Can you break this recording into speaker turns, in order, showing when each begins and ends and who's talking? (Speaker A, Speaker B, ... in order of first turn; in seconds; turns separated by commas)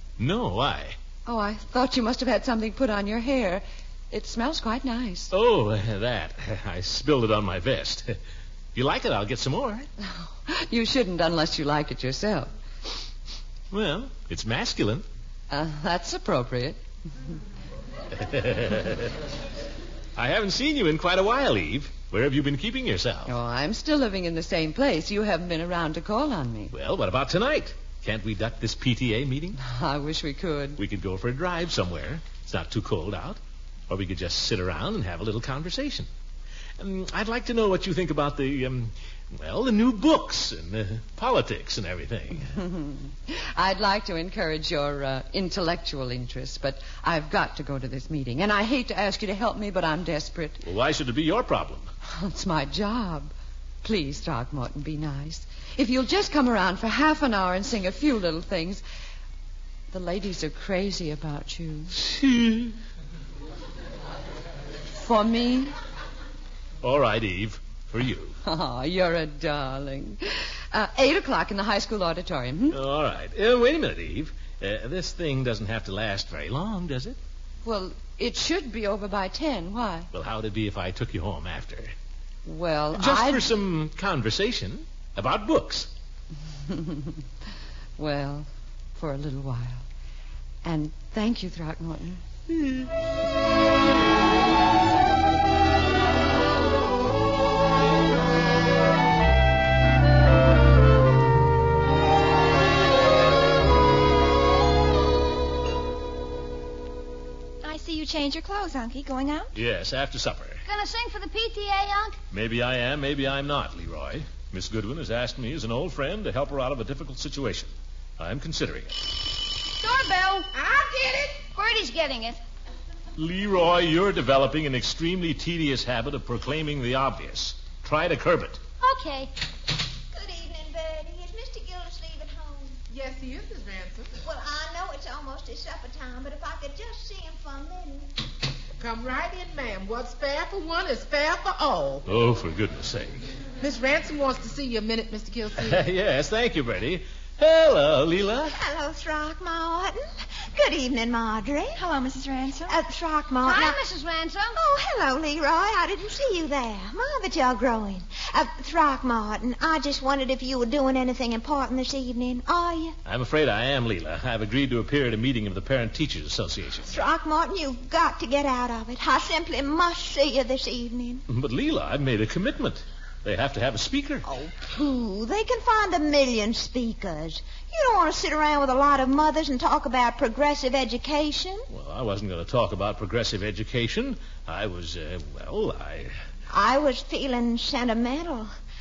Speaker A: 0.2-0.9, Speaker B: 1.2-5.3, Speaker A: 5.3-8.1, Speaker A: 8.7-9.9, Speaker B: 10.0-12.5, Speaker A: 13.7-15.0, Speaker B: 15.5-16.8, Speaker A: 18.1-19.1, Speaker A: 20.1-23.3, Speaker B: 23.2-26.7, Speaker A: 26.7-29.6, Speaker B: 29.6-30.8, Speaker A: 30.8-36.1, Speaker A: 36.8-42.5, Speaker B: 42.5-50.6, Speaker A: 50.6-51.9, Speaker B: 52.1-58.8, Speaker B: 59.9-62.0, Speaker A: 61.9-62.7, Speaker B: 65.0-65.7, Speaker A: 66.8-68.4, Speaker B: 68.4-72.8, Speaker A: 72.7-77.2, Speaker B: 77.6-80.1, Speaker A: 80.1-81.9, Speaker B: 82.5-83.4, Speaker A: 82.9-85.9, Speaker B: 86.7-87.2, Speaker B: 88.0-89.8, Speaker B: 90.6-92.2, Speaker C: 107.6-109.5, Speaker A: 109.5-110.6, Speaker D: 110.7-112.2, Speaker A: 112.3-119.0, Speaker D: 119.8-120.5, Speaker E: 120.5-121.5, Speaker D: 121.5-122.4, Speaker A: 123.2-128.6, Speaker D: 128.8-129.3, Speaker F: 130.1-132.8, Speaker E: 132.9-134.2, Speaker F: 134.2-138.1, Speaker E: 138.8-142.0, Speaker A: 142.1-143.3, Speaker E: 143.6-145.8, Speaker A: 145.6-148.5, Speaker F: 148.4-150.0, Speaker F: 150.5-151.8, Speaker C: 151.8-152.7, Speaker F: 152.7-153.8, Speaker D: 153.4-154.6, Speaker F: 154.5-162.9, Speaker A: 163.0-166.9, Speaker F: 166.9-171.2, Speaker A: 171.3-174.2, Speaker F: 174.2-181.7, Speaker A: 181.7-186.2, Speaker F: 186.5-188.5